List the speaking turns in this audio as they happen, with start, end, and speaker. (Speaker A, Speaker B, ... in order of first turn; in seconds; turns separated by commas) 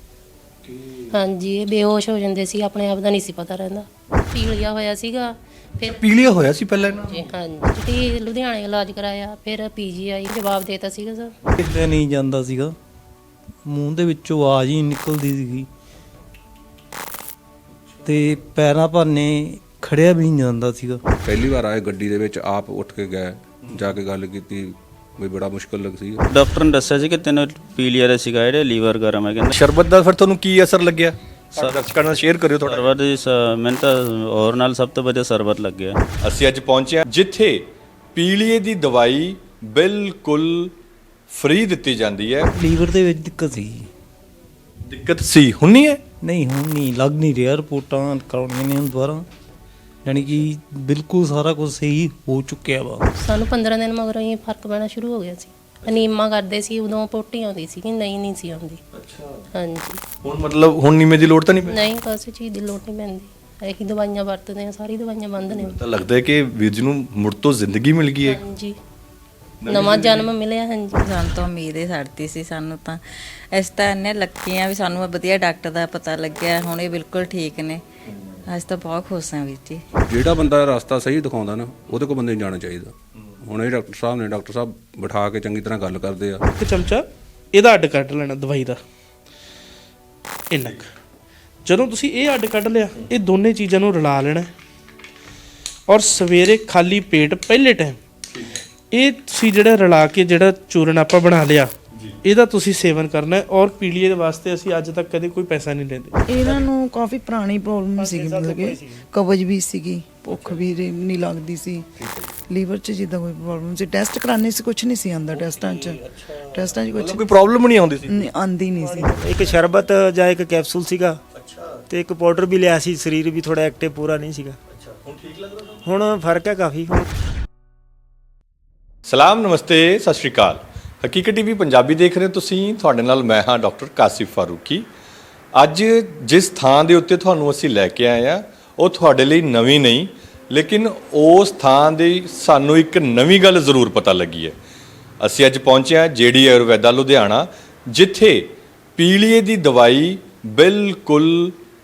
Speaker A: 0.6-1.1, Speaker B: 1.1-6.0, Speaker A: 5.8-7.3, Speaker B: 7.1-11.3, Speaker C: 11.6-12.8, Speaker C: 13.7-15.7, Speaker A: 17.7-18.2, Speaker C: 18.1-21.0, Speaker D: 21.2-26.2, Speaker A: 23.6-23.9, Speaker E: 26.3-29.5, Speaker A: 29.5-32.9, Speaker E: 32.6-36.0, Speaker A: 36.2-40.7, Speaker A: 41.3-42.5, Speaker C: 42.5-43.9, Speaker A: 44.9-46.0, Speaker C: 46.2-49.3, Speaker C: 50.0-53.1, Speaker A: 50.1-50.4, Speaker B: 53.2-58.8, Speaker A: 58.9-59.5, Speaker B: 59.5-60.0, Speaker A: 60.2-61.8, Speaker B: 61.7-65.8, Speaker A: 65.5-68.4, Speaker B: 68.3-68.8, Speaker A: 69.6-70.3, Speaker B: 69.7-71.0, Speaker F: 71.0-77.8, Speaker A: 78.1-78.4, Speaker F: 78.5-79.8, Speaker D: 80.0-86.5, Speaker G: 86.6-88.8, Speaker G: 90.5-90.9, Speaker A: 90.6-90.8, Speaker G: 91.7-94.5, Speaker G: 95.9-98.0, Speaker A: 98.3-98.7, Speaker G: 98.9-101.7, Speaker A: 101.9-102.2, Speaker G: 102.2-106.2, Speaker H: 106.3-111.9, Speaker I: 108.0-109.0, Speaker A: 110.3-110.6, Speaker A: 112.0-112.4, Speaker H: 112.5-117.3, Speaker A: 115.3-118.3, Speaker H: 118.1-119.2, Speaker I: 118.8-121.2, Speaker A: 121.3-121.8, Speaker I: 121.9-124.6, Speaker A: 124.7-125.8, Speaker I: 125.8-127.0, Speaker A: 129.1-134.9, Speaker A: 135.5-144.6, Speaker A: 145.2-151.6